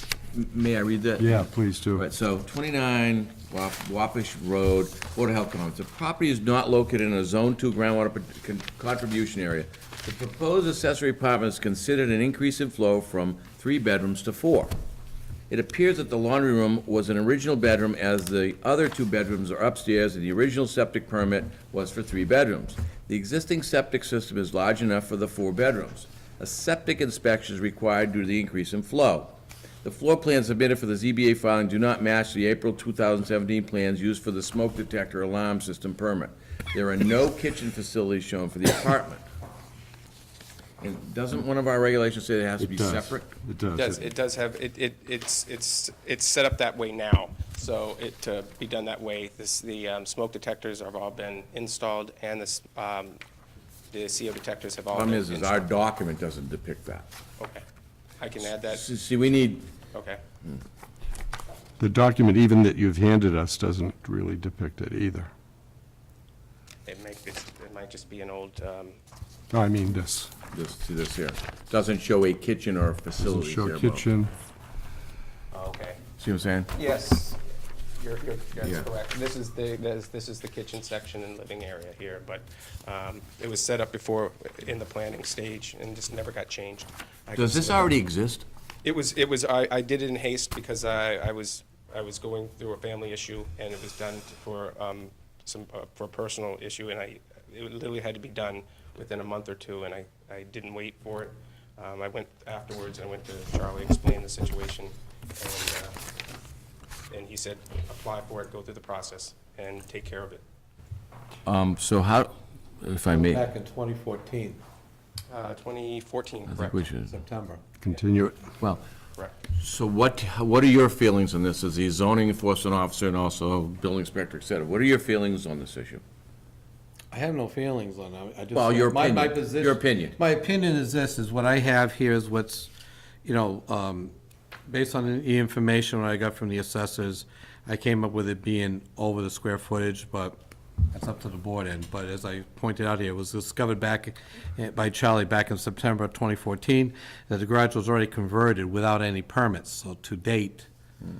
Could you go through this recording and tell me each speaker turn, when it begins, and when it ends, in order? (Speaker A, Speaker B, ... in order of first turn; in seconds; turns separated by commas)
Speaker A: 0.3-14.7, Speaker B: 1.2-2.0, Speaker A: 15.5-39.2, Speaker A: 40.8-43.3, Speaker B: 42.6-44.0, Speaker C: 43.7-53.2, Speaker C: 53.9-55.7, Speaker A: 54.9-57.1, Speaker C: 58.2-58.8, Speaker A: 58.5-59.7, Speaker C: 59.9-60.2, Speaker B: 61.8-65.3, Speaker C: 66.8-69.0, Speaker B: 69.5-70.3, Speaker A: 70.5-74.0, Speaker B: 73.2-74.3, Speaker C: 75.5-76.0, Speaker A: 76.2-76.7, Speaker C: 76.7-77.4, Speaker C: 78.0-88.0, Speaker A: 87.3-88.4, Speaker C: 88.8-106.0, Speaker C: 107.1-110.4, Speaker A: 111.4-113.5, Speaker D: 113.1-114.6, Speaker C: 115.3-116.8, Speaker A: 116.5-117.2, Speaker D: 117.1-117.6, Speaker B: 117.8-118.4, Speaker A: 119.5-126.0, Speaker D: 127.1-132.7, Speaker A: 128.5-130.2, Speaker D: 133.2-134.1, Speaker D: 134.7-140.4, Speaker D: 140.9-150.7